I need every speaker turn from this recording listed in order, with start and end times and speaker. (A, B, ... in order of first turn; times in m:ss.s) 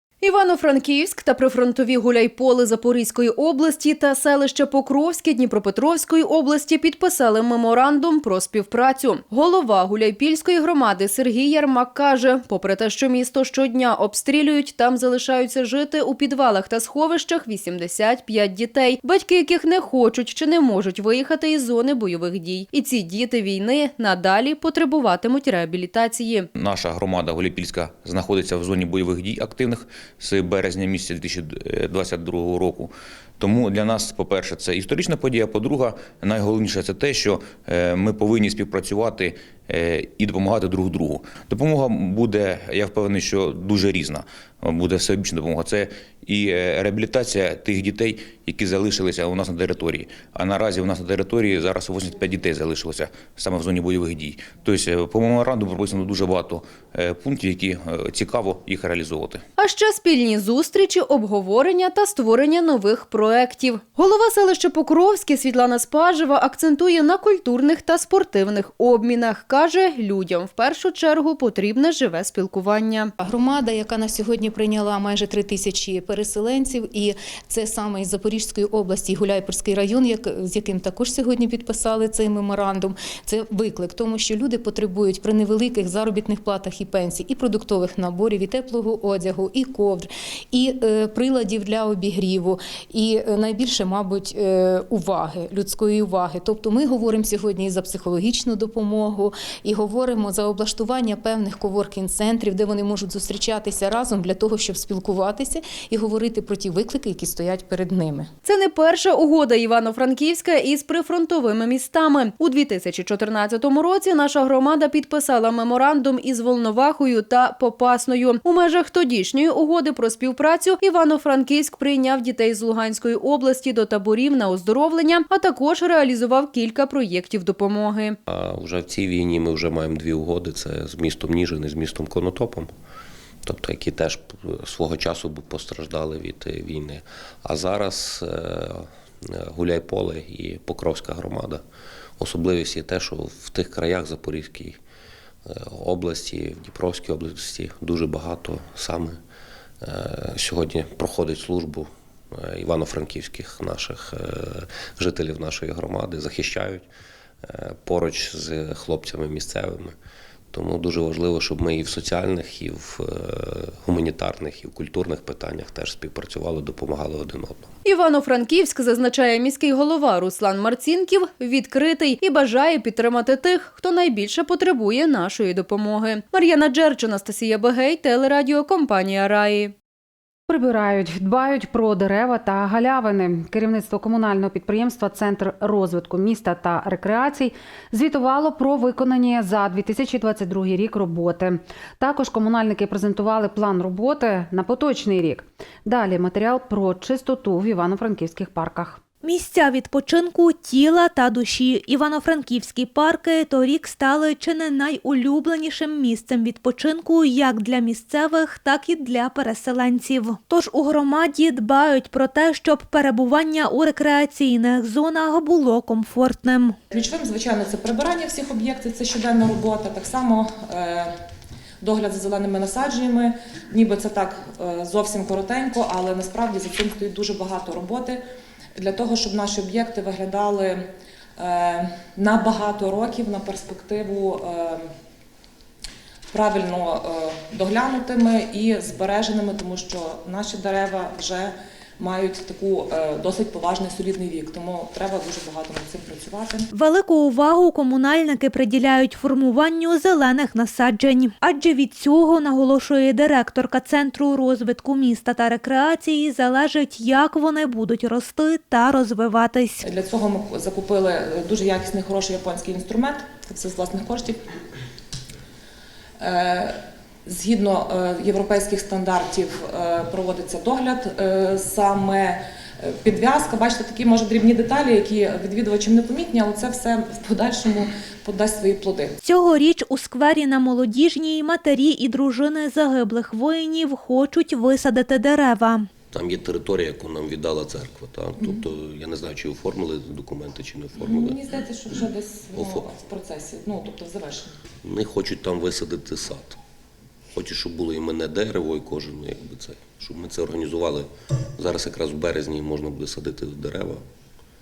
0:00.2-0:26.5 A
0:26.6-0:59.4 B
0:59.6-1:13.1 A
1:13.2-1:48.3 C
1:48.4-2:08.2 A
2:08.3-2:12.7 D
2:13.4-2:21.6 D
2:22.2-2:24.8 D
2:25.5-2:29.2 D
2:29.8-2:36.9 D
2:37.5-2:40.0 D
2:40.5-2:47.7 D
2:47.8-2:59.7 A
3:00.5-3:19.0 E
3:19.2-3:36.8 F
3:37.0-3:41.1 G
3:41.8-3:48.2 G
3:48.8-3:50.9 G
3:51.4-3:54.9 G
3:56.3-4:06.7 G
4:06.7-4:19.8 F
4:19.8-4:24.4 G
4:26.2-4:39.1 G
4:39.2-4:45.9 F
4:46.1-4:51.4 D
4:51.1-4:54.5 G
4:52.5-4:52.9 D
4:54.8-4:56.6 D
4:57.3-5:04.0 D